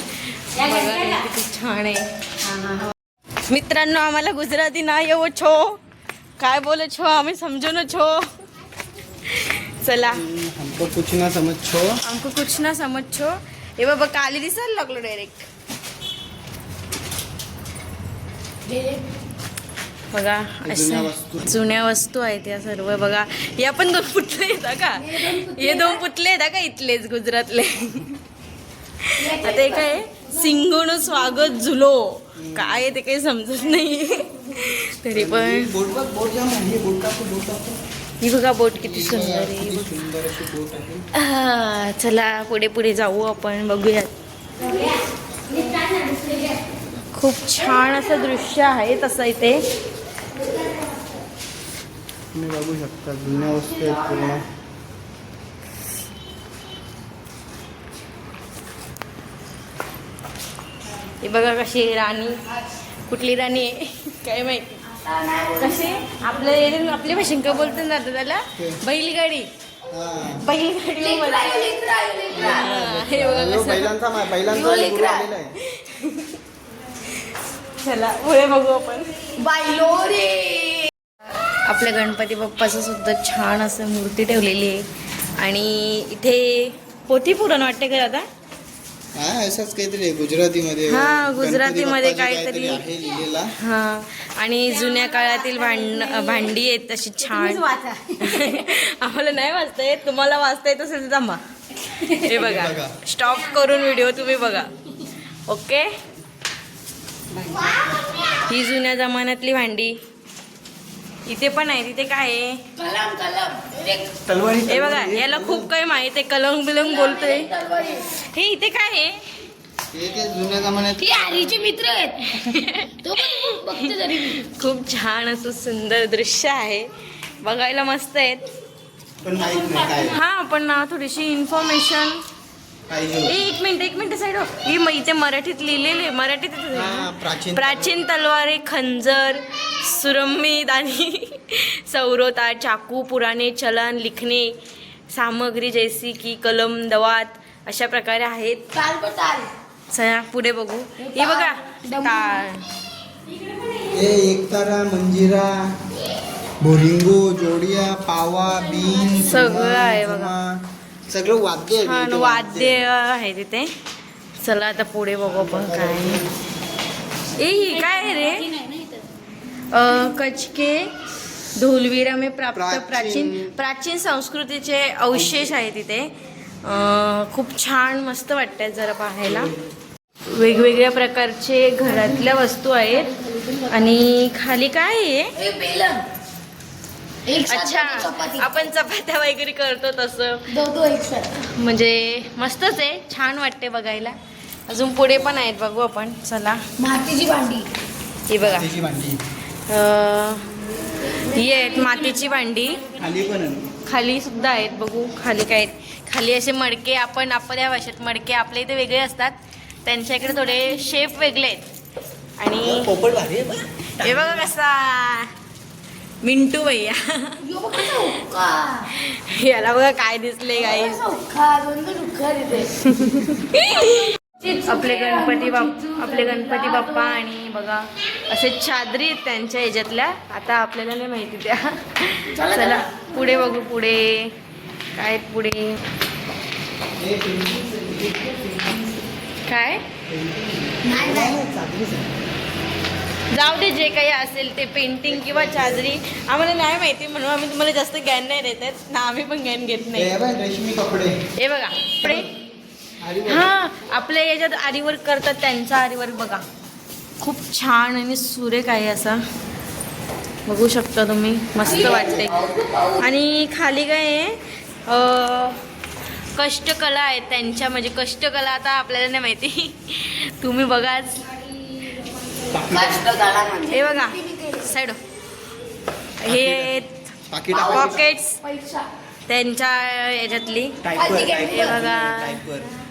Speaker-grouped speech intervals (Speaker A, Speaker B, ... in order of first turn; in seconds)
Speaker A: 0.4-2.1, 3.5-5.8, 6.4-8.3, 9.3-10.2, 12.0-15.5, 20.1-28.1, 29.0-35.7, 38.2-39.9, 41.1-44.1, 47.1-49.6, 61.2-62.4, 63.1-64.8, 65.6-69.5, 70.3-71.7, 72.4-74.0, 75.7-76.4, 77.8-79.1, 81.7-84.9, 85.4-88.3, 90.9-92.8, 93.6-97.7, 98.2-101.4, 102.0-104.7, 105.5-105.9, 108.5-110.0, 111.3-112.6, 114.7-117.5, 118.1-119.2, 122.3-126.9, 127.4-128.4, 130.1-132.2, 133.3-144.6, 145.1-148.7, 149.9-152.6, 159.2-160.3, 161.8-163.7, 164.4-166.2, 167.4-168.6, 169.7-170.9, 171.6-176.1, 176.6-179.5, 180.3-183.1, 183.7-185.3, 187.5-190.5, 191.5-194.2, 194.7-196.6, 198.3-198.7, 199.7-200.4, 201.2-202.9, 203.8-211.7, 212.4-212.9, 214.0-215.3, 216.2-217.4, 218.9-221.1, 223.0-234.3, 234.9-235.8, 239.5-239.8, 243.3-250.1, 251.4-252.3, 253.2-256.5, 257.2-259.2, 260.5-262.5, 263.0-265.6, 266.4-271.6, 273.7-275.0, 276.2-277.0, 277.5-278.4, 279.3-280.8, 281.5-282.4
Speaker B: 10.0-12.0, 20.6-21.4, 32.4-32.9, 35.1-37.8, 38.8-41.0, 52.3-54.5, 69.9-70.4, 72.3-75.5, 89.2-93.5, 102.3-103.0, 114.3-115.7, 119.9-121.2, 129.2-130.2, 132.9-133.4, 136.7-138.0, 153.9-155.7, 156.6-162.8, 165.2-166.3, 172.5-173.5, 175.1-175.6, 179.3-179.5, 181.9-182.2, 198.4-199.2, 202.9-203.7, 212.6-214.5, 237.0-239.1, 240.1-242.1, 245.1-245.9, 249.9-251.2, 252.0-252.3, 253.0-253.5, 261.6-262.4, 272.5-273.1, 276.3-276.7, 277.3-278.0, 280.8-282.7
Speaker C: 18.7-19.1, 25.0-26.0, 29.2-30.3, 44.6-45.0, 45.5-46.5, 64.9-66.5, 71.0-72.7, 74.5-75.3, 79.4-80.9, 107.5-107.8, 112.8-114.2, 116.8-118.0, 121.0-122.2, 123.0-124.4, 148.7-149.5, 151.0-152.4, 185.4-186.1, 187.2-188.7, 190.5-191.3, 196.8-197.7, 217.4-218.9, 220.6-222.8, 224.4-227.1, 232.3-233.1, 240.8-241.3, 261.6-263.1, 272.7-274.7, 277.5-278.9, 281.0-281.7